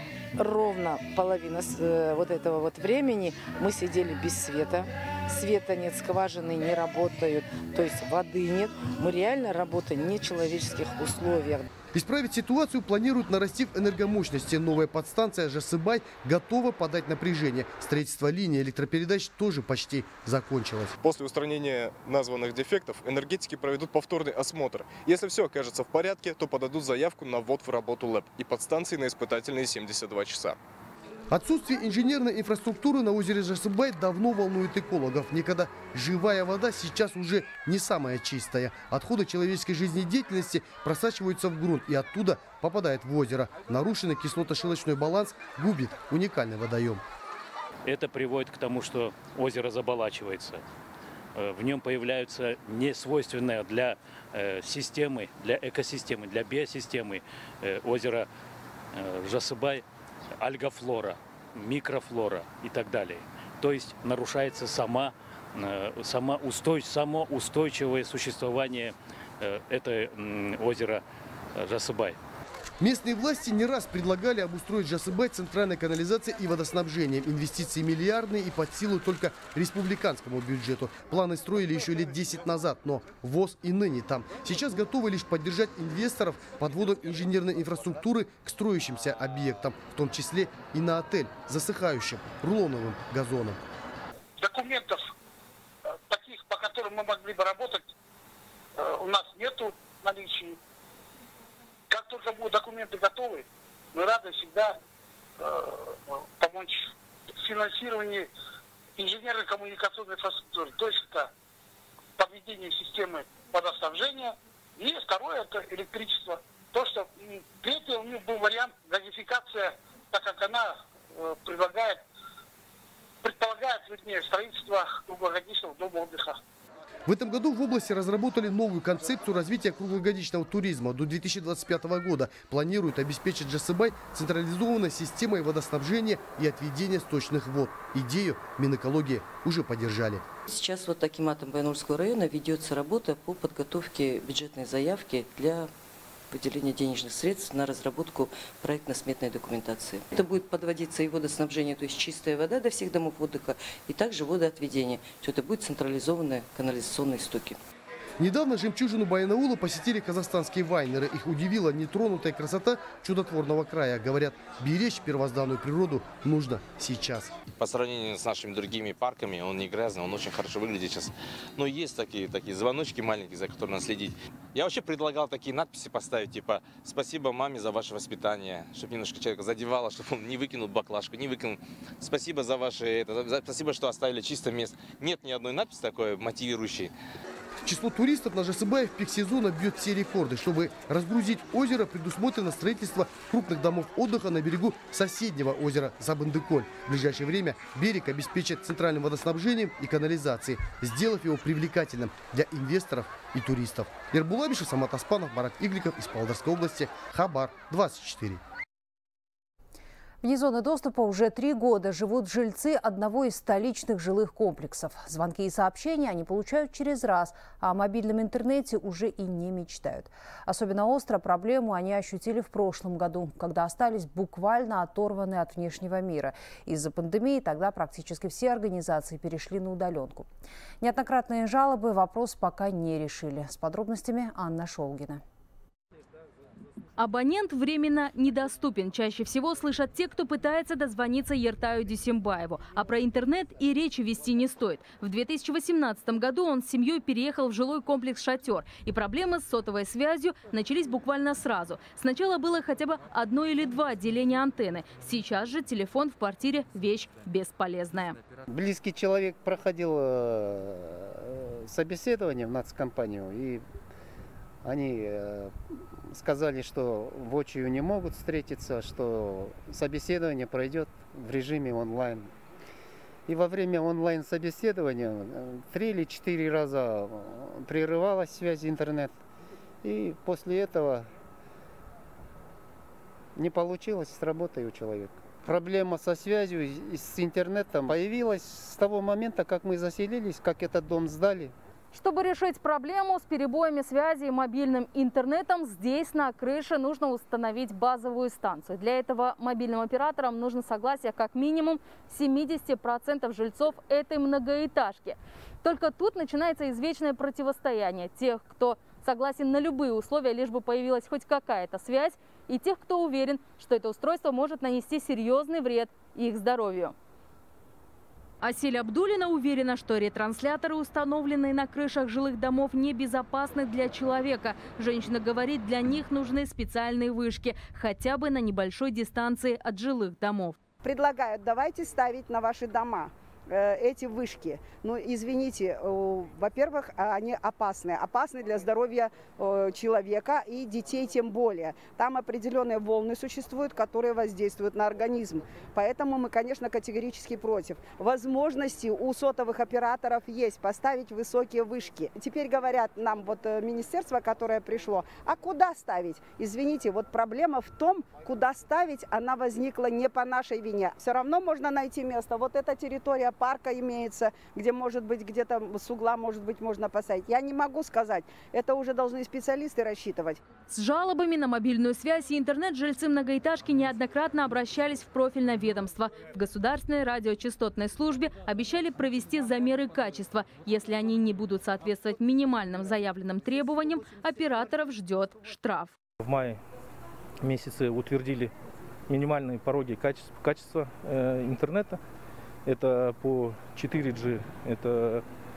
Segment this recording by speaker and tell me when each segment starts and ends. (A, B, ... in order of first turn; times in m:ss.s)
0:00.4-0:11.6 A
0:11.9-0:21.0 B
0:21.0-0:30.6 C
0:31.3-0:47.0 B
0:47.8-0:50.6 D
0:51.4-0:58.3 D
0:58.9-0:59.8 D
1:00.4-1:11.0 D
1:11.6-1:12.2 D
1:12.8-1:33.6 B
1:34.4-1:35.1 E
1:35.9-1:37.9 E
1:38.8-1:40.6 E
1:41.9-1:44.8 E
1:45.4-1:48.3 E
1:49.0-1:51.3 E
1:52.2-2:02.0 E
2:03.2-2:06.4 E
2:07.1-2:20.2 B
2:20.5-2:25.7 F
2:26.3-2:37.6 F
2:38.2-2:47.4 B
2:47.6-3:06.9 G
3:07.6-3:28.4 B
3:30.2-3:50.3 H
3:50.8-3:55.2 H
3:57.0-4:18.2 I
4:18.5-4:23.7 J
4:24.6-4:25.5 J
4:26.1-4:32.3 J
4:33.3-4:39.2 J
4:39.8-4:41.1 J
4:43.4-4:51.5 J
4:51.9-5:17.0 I
5:18.4-5:30.6 I
5:30.8-6:10.4 K
6:10.7-6:26.0 I
6:26.2-6:26.6 L
6:27.4-6:28.5 L
6:29.1-6:32.0 L
6:32.6-6:35.2 L